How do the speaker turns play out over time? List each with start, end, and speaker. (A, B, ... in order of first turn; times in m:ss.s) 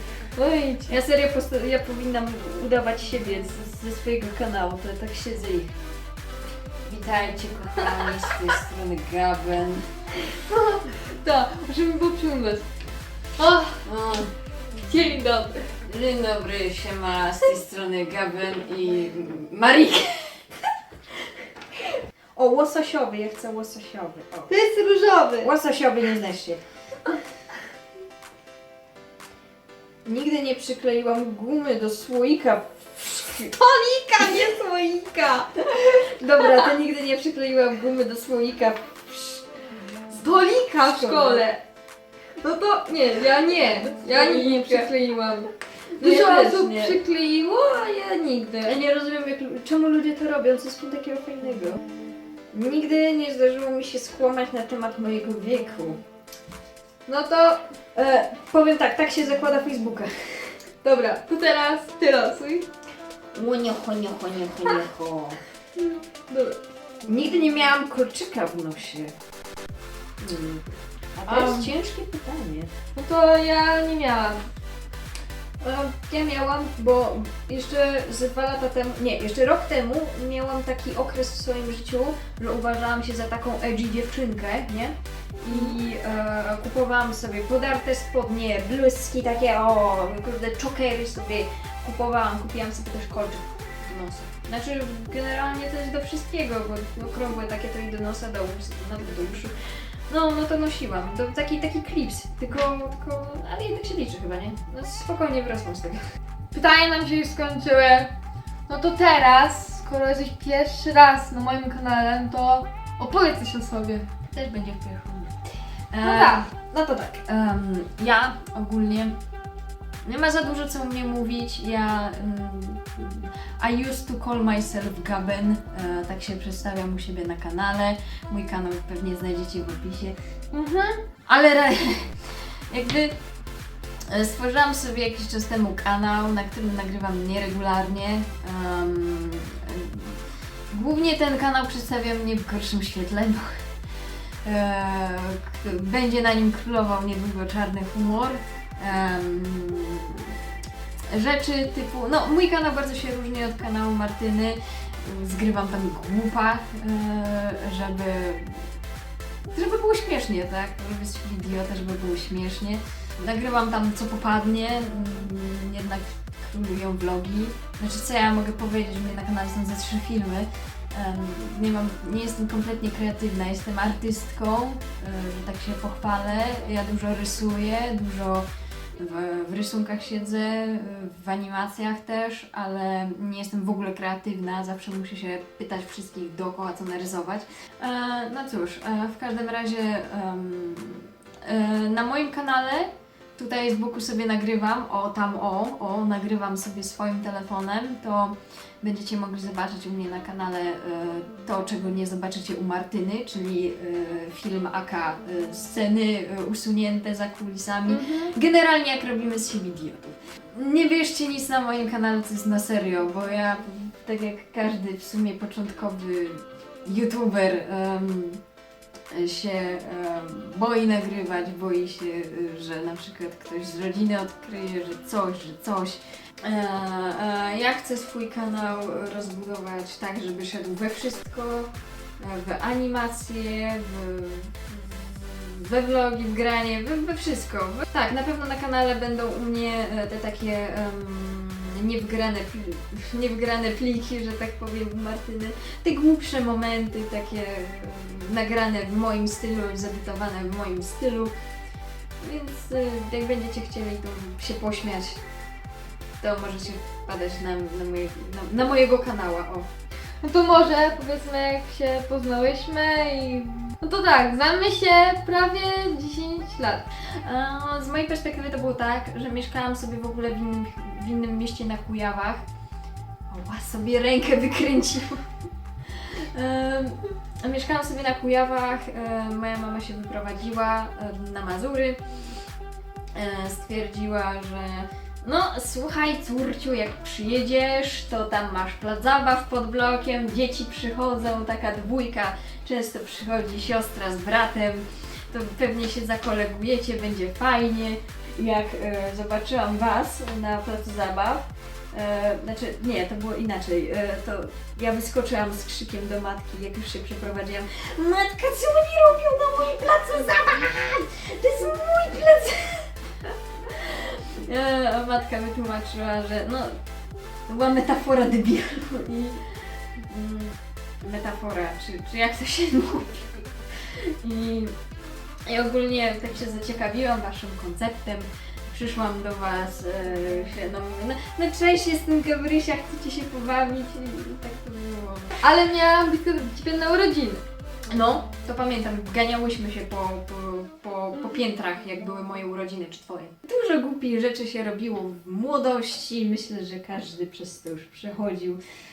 0:00.4-0:00.9 A
0:00.9-0:05.7 B
0:06.8-0:09.9 B
0:10.5-0:12.6 A
0:13.4-0:13.8 A
0:13.8-0:14.3 B
0:14.8-0:15.7 A
0:15.8-0:20.4 B
0:22.4-0:24.5 B
0:24.5-0:25.5 A
0:25.4-0:26.6 B
0:30.0-0:33.5 B
0:33.5-0:35.6 A
0:34.2-0:34.5 B
0:35.8-0:39.4 B
0:40.1-0:41.6 A
0:40.7-0:41.5 B
0:42.4-0:48.8 A
0:43.6-0:44.9 B
0:46.0-0:47.0 B
0:48.7-0:51.8 B
0:52.5-0:56.0 B
0:57.1-0:57.6 A
0:58.0-1:00.6 B
1:00.8-1:02.7 A
1:03.3-1:05.4 B
1:05.8-1:06.6 A
1:07.1-1:09.1 B
1:10.2-1:12.7 B
1:11.3-1:11.7 A
1:13.0-1:14.4 A
1:15.6-1:39.5 B
1:25.5-1:25.8 A
1:40.1-1:46.0 B
1:46.5-1:48.1 A
1:48.7-1:54.1 A
1:54.3-1:55.4 B
1:55.9-1:59.2 B
1:56.0-1:56.4 A
2:00.0-2:10.2 B
2:10.5-2:11.0 A
2:11.3-2:12.2 B
2:12.7-2:13.1 B
2:14.1-2:23.6 B
2:24.4-2:30.4 B
2:31.1-2:38.7 B
2:39.5-2:58.5 B
2:59.0-3:38.4 B
3:27.9-3:28.3 A
3:39.1-4:11.3 B
4:12.2-4:15.2 B
4:16.2-4:19.7 B
4:20.2-4:26.8 A
4:27.2-4:32.4 B
4:33.3-4:35.2 B
4:35.9-4:42.0 B
4:43.1-5:12.9 B
5:13.6-5:16.8 B
5:17.5-5:19.3 B
5:19.1-5:19.4 A
5:20.0-5:24.7 B
5:25.5-5:35.4 B
5:35.4-5:37.4 A
5:37.9-5:48.6 B
5:41.1-5:41.4 A